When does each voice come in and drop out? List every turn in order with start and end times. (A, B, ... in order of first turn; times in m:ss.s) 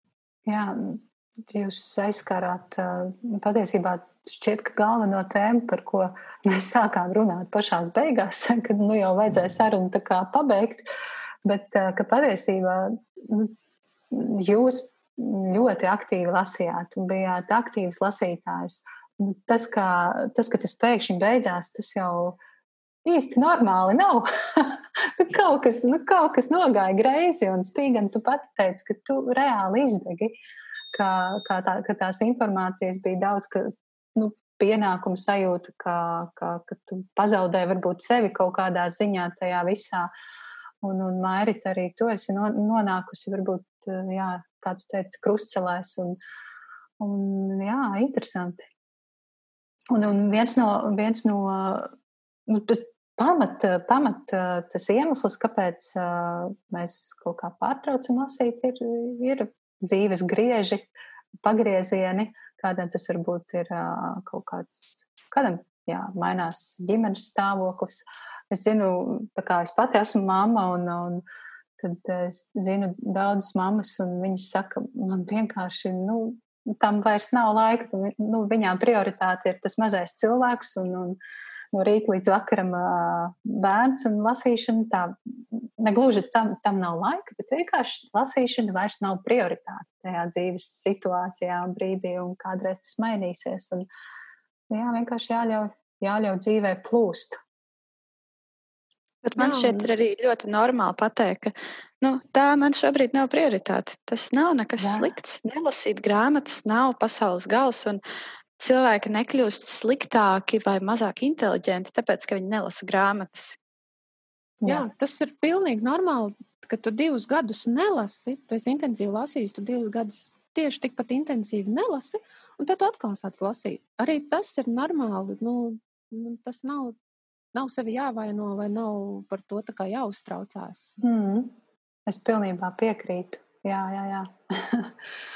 0:00.5-0:10.9 A
0:11.4-0:13.5 A
0:14.1-0:22.4 A
0:23.0-0:30.4 A
0:30.9-0:40.1 A
0:40.8-0:46.2 A
0:47.0-0:48.6 A
0:49.9-0:51.9 A
0:52.5-1:00.9 A
1:01.4-1:11.2 A
1:11.8-1:21.2 A
1:21.7-1:33.9 A
1:34.7-1:37.4 A
1:39.4-1:48.0 B
1:39.4-1:39.9 C
1:44.8-1:45.1 A
1:48.6-1:53.6 B
1:54.6-1:54.9 A
1:54.6-2:07.0 C
2:07.5-2:11.0 C
2:11.0-2:11.5 A
2:12.1-2:14.9 A